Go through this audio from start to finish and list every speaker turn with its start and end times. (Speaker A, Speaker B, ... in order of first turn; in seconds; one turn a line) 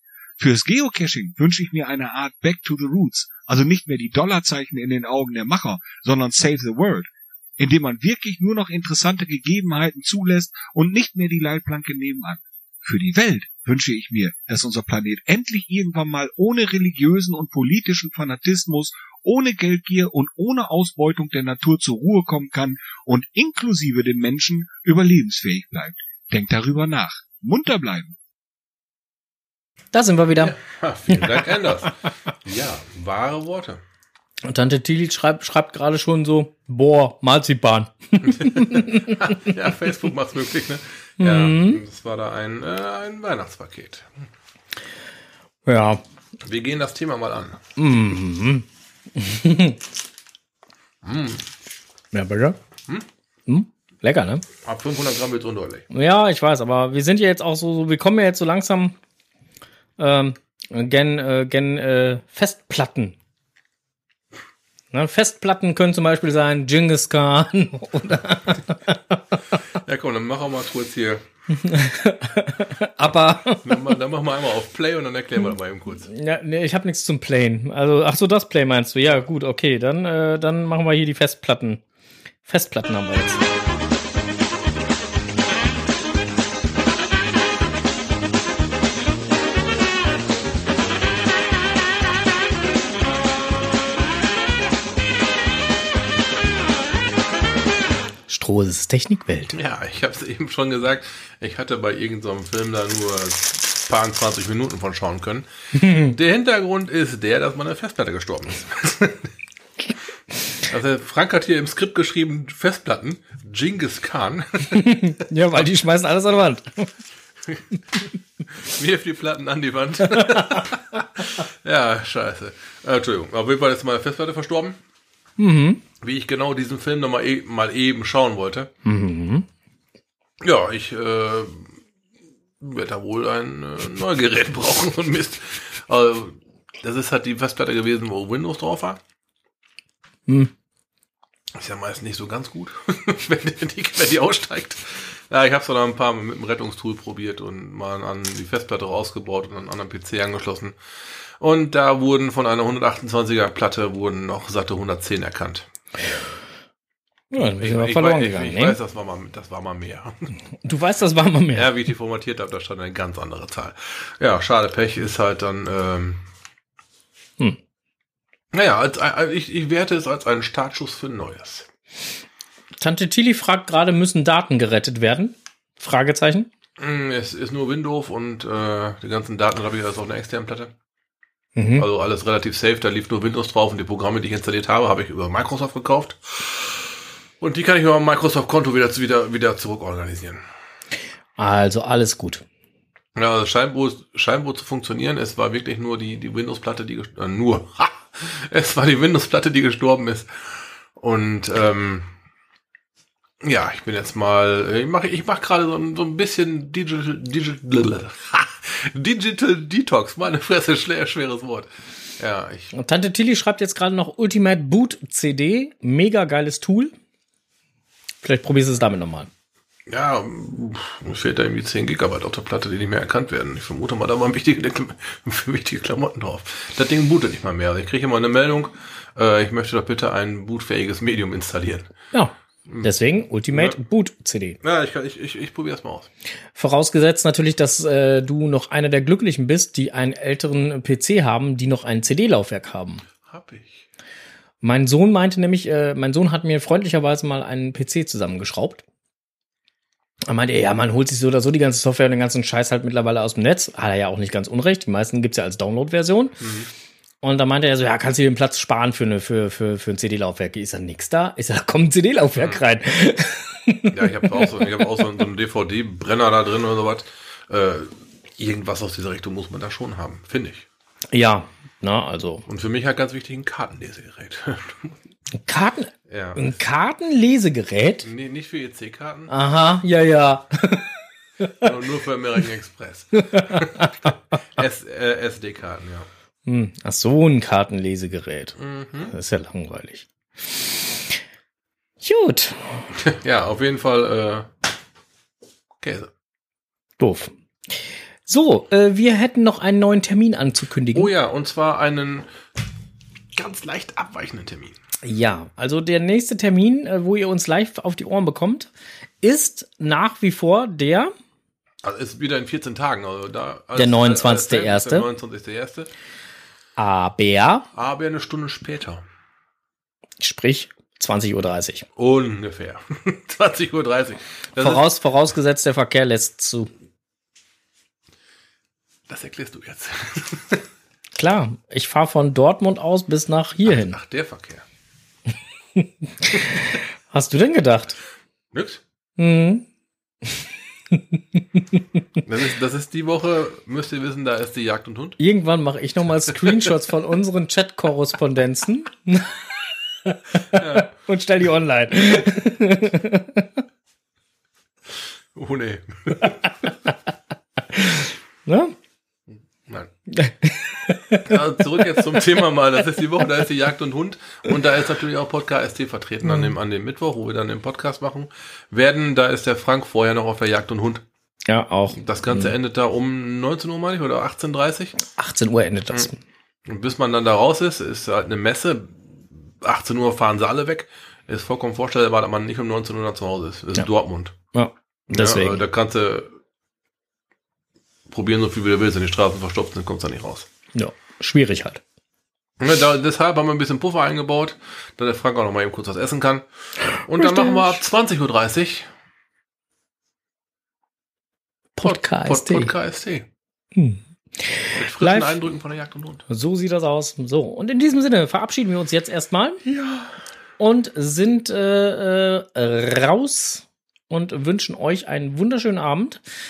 Speaker A: 0.4-28.1
Speaker B: 29.9-30.5
Speaker C: 30.4-33.8
Speaker B: 34.4-39.4
Speaker C: 38.3-44.2
Speaker B: 41.2-41.8
Speaker B: 45.6-46.0
Speaker C: 46.4-47.6
Speaker B: 47.8-49.8
Speaker C: 51.0-51.4
Speaker B: 52.1-52.6
Speaker B: 53.5-54.4
Speaker C: 54.6-55.8
Speaker B: 55.9-59.0
Speaker B: 60.0-63.1
Speaker B: 64.9-69.0
Speaker C: 69.8-71.2
Speaker B: 71.5-73.9
Speaker C: 73.5-76.1
Speaker B: 76.1-81.8
Speaker B: 82.5-83.4
Speaker B: 98.3-99.5
Speaker C: 99.5-105.5
Speaker B: 105.7-106.2
Speaker C: 106.1-109.3
Speaker C: 110.7-114.9
Speaker B: 114.7-116.9
Speaker C: 117.5-118.0
Speaker C: 118.6-124.8
Speaker B: 120.1-120.7
Speaker B: 125.4-125.8
Speaker C: 126.0-128.7
Speaker B: 128.8-129.5
Speaker C: 130.4-131.8
Speaker C: 132.6-139.0
Speaker B: 140.3-140.5
Speaker C: 141.5-150.8
Speaker C: 151.4-156.3
Speaker B: 157.3-158.8
Speaker C: 157.3-160.3
Speaker B: 160.6-161.7
Speaker C: 161.5-166.2
Speaker C: 168.5-171.7
Speaker B: 172.8-176.5
Speaker C: 176.8-180.7
Speaker B: 181.6-181.9
Speaker C: 181.8-190.4
Speaker B: 191.4-192.4
Speaker C: 193.2-202.1
Speaker C: 203.4-212.7
Speaker B: 212.7-216.9
Speaker B: 218.2-219.3
Speaker C: 219.9-231.9
Speaker B: 232.1-234.6
Speaker C: 233.5-233.8
Speaker C: 234.6-236.1
Speaker B: 236.6-243.0
Speaker C: 243.2-243.9
Speaker B: 244.6-248.8
Speaker B: 250.3-256.4
Speaker C: 256.4-256.7
Speaker B: 257.2-265.0
Speaker C: 262.4-262.6
Speaker C: 263.9-270.7
Speaker B: 271.1-272.4
Speaker C: 272.5-275.0
Speaker B: 275.3-278.1
Speaker C: 276.1-276.4
Speaker C: 278.0-279.3
Speaker B: 279.3-281.7
Speaker C: 281.6-286.1
Speaker B: 283.2-284.1
Speaker B: 286.4-288.6
Speaker C: 288.6-289.1
Speaker B: 289.1-291.2
Speaker B: 292.0-292.9
Speaker C: 292.9-294.5
Speaker C: 295.8-296.1
Speaker B: 297.0-297.3
Speaker B: 298.2-301.1
Speaker C: 300.9-302.3
Speaker C: 303.3-304.8
Speaker B: 305.0-308.7
Speaker B: 309.2-311.1
Speaker C: 311.8-315.9
Speaker B: 313.8-315.1
Speaker B: 316.8-317.7
Speaker C: 317.7-319.0
Speaker B: 320.2-321.9
Speaker C: 321.9-324.9
Speaker B: 324.6-326.7
Speaker C: 329.1-330.6
Speaker B: 331.1-334.0
Speaker C: 333.6-334.6
Speaker B: 335.8-338.0
Speaker C: 338.5-338.8
Speaker B: 339.2-339.7
Speaker B: 340.3-341.8
Speaker C: 342.2-345.2
Speaker B: 345.2-353.5
Speaker C: 350.5-350.9
Speaker C: 355.3-356.4
Speaker B: 357.7-358.7
Speaker B: 360.1-361.8
Speaker C: 361.2-371.0
Speaker B: 366.2-366.5
Speaker B: 371.5-372.5
Speaker C: 371.9-374.9
Speaker B: 375.1-376.2
Speaker C: 376.6-384.3
Speaker B: 384.5-385.6
Speaker C: 385.1-386.3
Speaker C: 388.1-390.5
Speaker B: 390.7-391.8
Speaker C: 392.6-398.9
Speaker B: 397.2-397.8
Speaker B: 401.8-402.7
Speaker C: 401.8-403.3
Speaker B: 403.7-405.4
Speaker C: 404.6-406.2
Speaker B: 406.3-409.6
Speaker C: 409.7-410.1
Speaker B: 410.6-416.2